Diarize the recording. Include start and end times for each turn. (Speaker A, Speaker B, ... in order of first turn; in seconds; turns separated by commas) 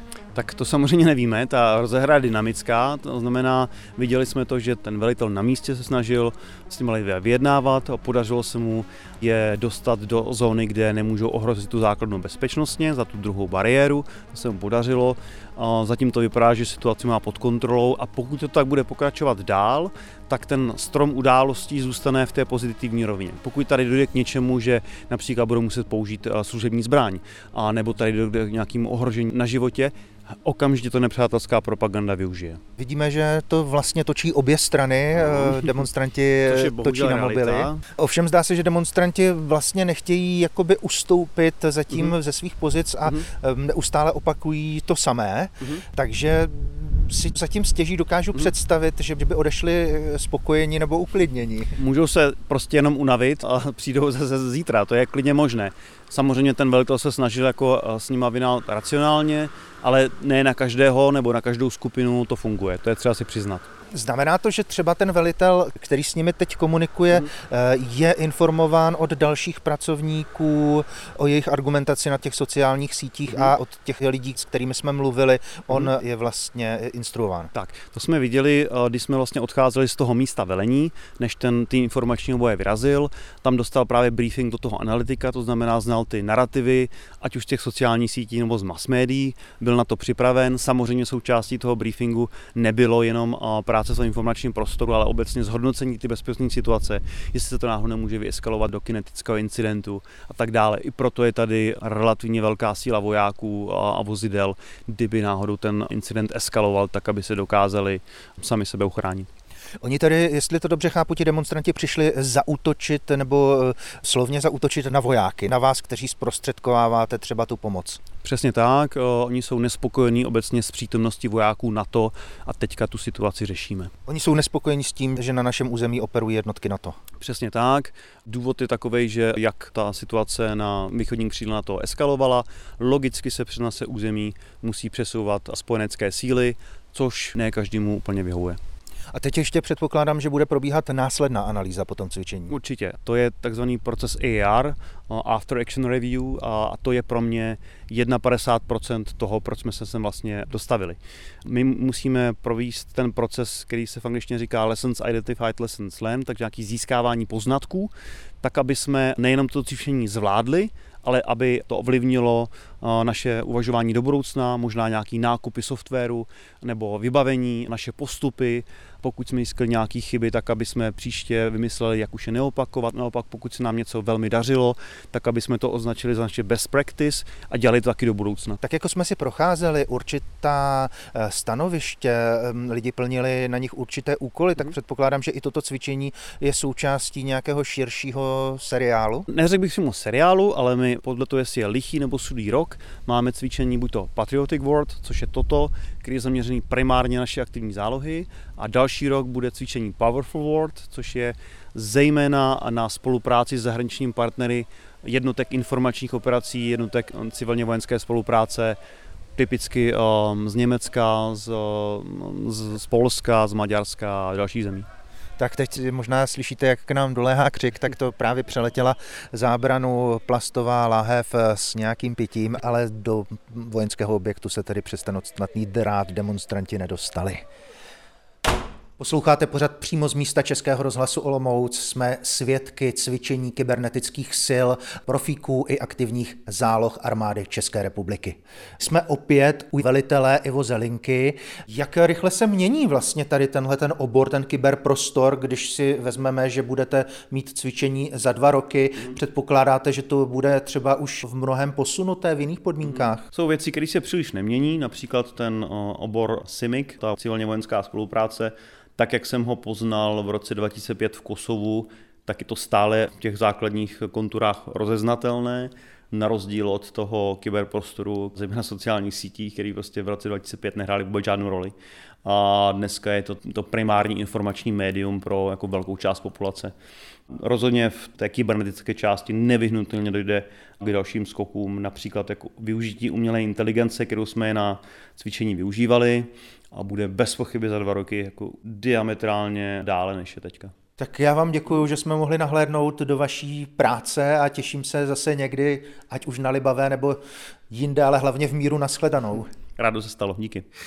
Speaker A: 0.3-32.6, Speaker B: 32.8-51.7, Speaker A: 36.5-37.8, Speaker A: 51.8-63.7, Speaker B: 63.9-77.5, Speaker A: 77.5-109.3, Speaker B: 109.8-118.0, Speaker A: 118.2-123.9, Speaker B: 124.1-127.0, Speaker A: 127.2-138.6, Speaker B: 139.1-142.5, Speaker A: 142.5-178.6, Speaker B: 178.6-189.3, Speaker A: 189.3-208.8, Speaker A: 209.4-214.9, Speaker B: 215.4-227.4, Speaker B: 229.0-253.2, Speaker A: 252.8-271.7, Speaker A: 272.2-276.7, Speaker A: 277.3-290.7, Speaker B: 291.0-299.5, Speaker A: 299.8-300.7